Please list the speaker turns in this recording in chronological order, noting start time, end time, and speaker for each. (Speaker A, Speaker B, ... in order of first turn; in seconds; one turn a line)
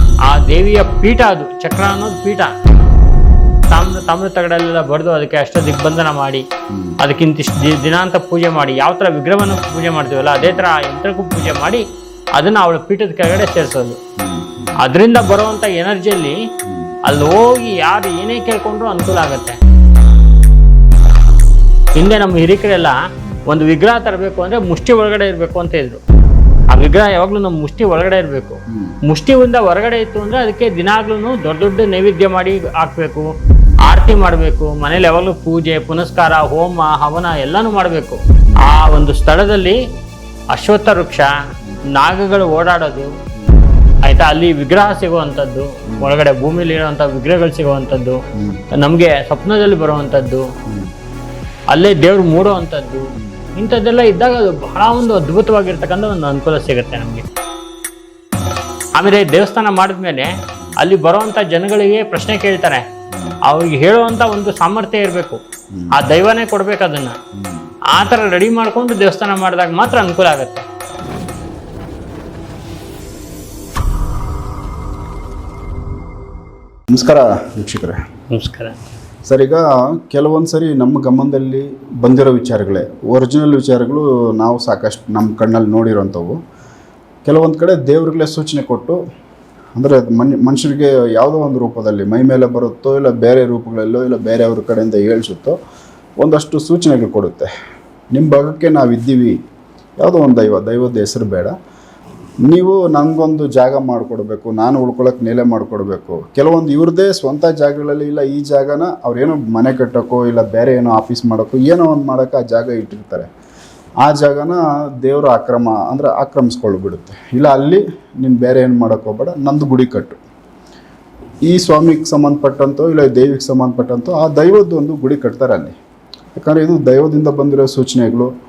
Speaker A: 0.2-2.5
Speaker A: 3.7-6.4
Speaker B: 6.7-7.0
Speaker A: 7.0-11.8
Speaker B: 10.4-10.7
Speaker A: 12.3-14.0
Speaker B: 14.2-14.8
Speaker A: 14.8-16.4
Speaker B: 16.6-16.9
Speaker A: 17.0-19.6
Speaker A: 21.9-26.0
Speaker A: 26.7-33.3
Speaker B: 28.7-29.0
Speaker A: 33.8-39.8
Speaker A: 40.5-41.3
Speaker A: 41.9-43.1
Speaker A: 44.0-48.2
Speaker B: 48.3-48.6
Speaker A: 48.7-50.5
Speaker B: 50.7-50.9
Speaker A: 51.7-57.2
Speaker B: 53.2-53.4
Speaker A: 59.0-62.8
Speaker B: 63.1-63.4
Speaker A: 63.4-65.4
Speaker A: 65.9-67.2
Speaker B: 67.3-67.7
Speaker A: 67.9-70.7
Speaker B: 76.9-78.0
Speaker A: 78.3-78.8
Speaker B: 79.3-86.4
Speaker B: 87.2-89.0
Speaker B: 89.8-95.6
Speaker B: 96.2-97.5
Speaker B: 98.1-99.3
Speaker B: 100.0-101.5
Speaker B: 102.4-113.3
Speaker B: 114.0-120.2
Speaker B: 121.5-125.7
Speaker B: 126.3-128.3